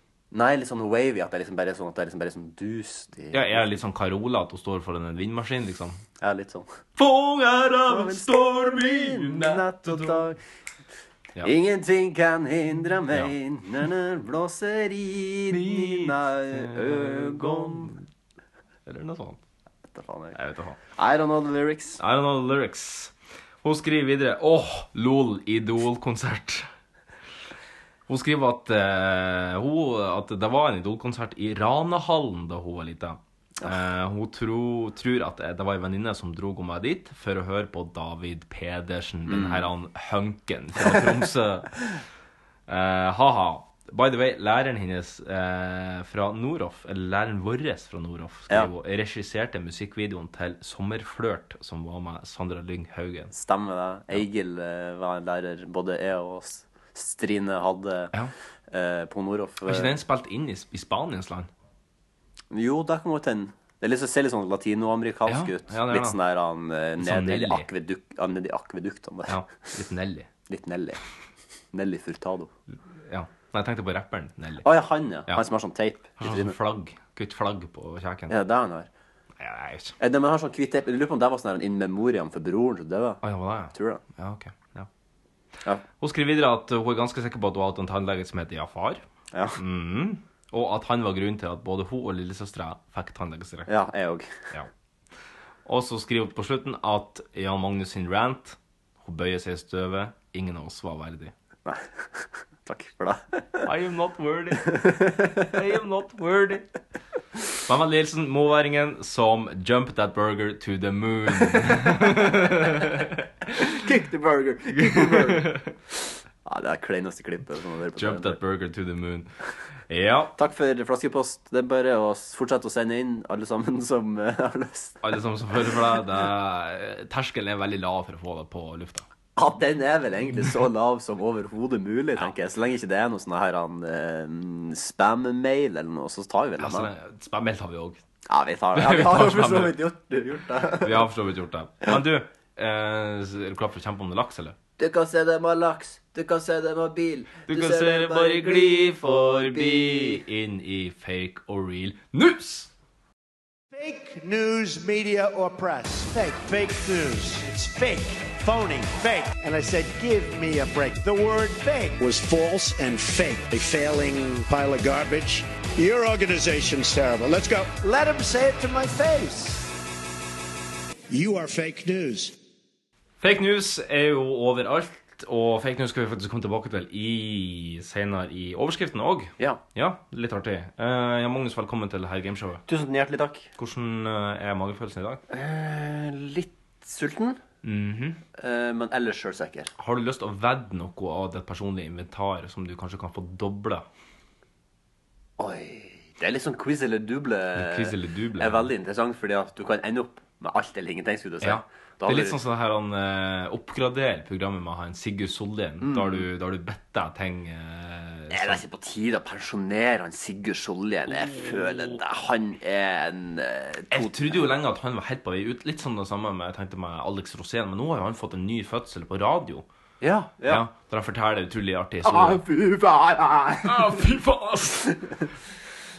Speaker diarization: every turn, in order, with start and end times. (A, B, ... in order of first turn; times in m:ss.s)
0:00.3-0:03.7 A
0:03.3-0:06.0 B
0:06.2-0:06.7 A
0:07.0-0:10.2 B
0:07.9-0:10.4 A
0:11.4-0:18.0 A
0:15.5-0:18.0 B
0:18.9-0:19.4 B
0:19.9-0:20.4 A
0:20.4-0:20.8 B
0:21.0-0:22.0 A
0:22.0-0:26.7 B
0:28.1-0:41.8 B
0:39.3-0:39.7 A
0:42.7-0:53.3 B
0:53.3-0:58.1 A
0:58.7-1:00.0 A
0:59.7-1:01.5 B
1:02.5-1:09.4 A
1:05.3-1:06.2 B
1:07.0-1:07.7 B
1:09.3-1:10.3 B
1:10.5-1:11.0 A
1:11.7-1:12.5 A
1:13.1-1:14.7 B
1:14.6-1:16.6 A
1:16.2-1:18.3 B
1:18.3-1:18.9 A
1:19.4-1:20.0 B
1:20.0-1:23.2 A
1:23.2-1:24.9 B
1:23.7-1:24.0 A
1:26.0-1:29.0 B
1:29.3-1:29.6 A
1:29.6-1:33.7 B
1:33.7-1:34.5 A
1:35.7-1:41.3 B
1:41.7-1:43.7 A
1:43.6-1:46.7 B
1:44.7-1:45.4 A
1:47.7-1:53.2 B
1:53.6-1:55.6 A
1:54.8-1:55.7 B
1:56.4-1:58.4 A
1:58.0-1:59.3 B
1:59.9-2:00.3 B
2:00.4-2:05.0 A
2:05.0-2:09.0 B
2:09.4-2:16.9 A
2:16.6-2:18.0 B
2:18.3-2:21.0 A
2:18.8-2:19.8 B
2:20.8-2:24.6 B
2:24.8-2:30.2 A
2:27.5-2:32.7 B
2:33.7-2:49.7 C
2:51.1-2:52.3 C
2:53.2-3:02.6 B
3:02.7-3:03.5 A
3:03.6-3:05.2 B
3:05.3-3:07.4 A
3:07.6-3:08.2 B
3:08.4-3:09.7 A
3:09.8-3:13.8 B
3:15.4-3:22.4 A
3:17.6-3:18.7 B
3:21.4-3:28.6 B
3:25.8-3:26.3 A
3:28.3-3:34.4 A
3:33.9-3:39.6 B
3:40.0-3:40.6 A
3:40.5-3:42.4 B
3:42.0-3:44.0 A
3:43.6-3:45.0 B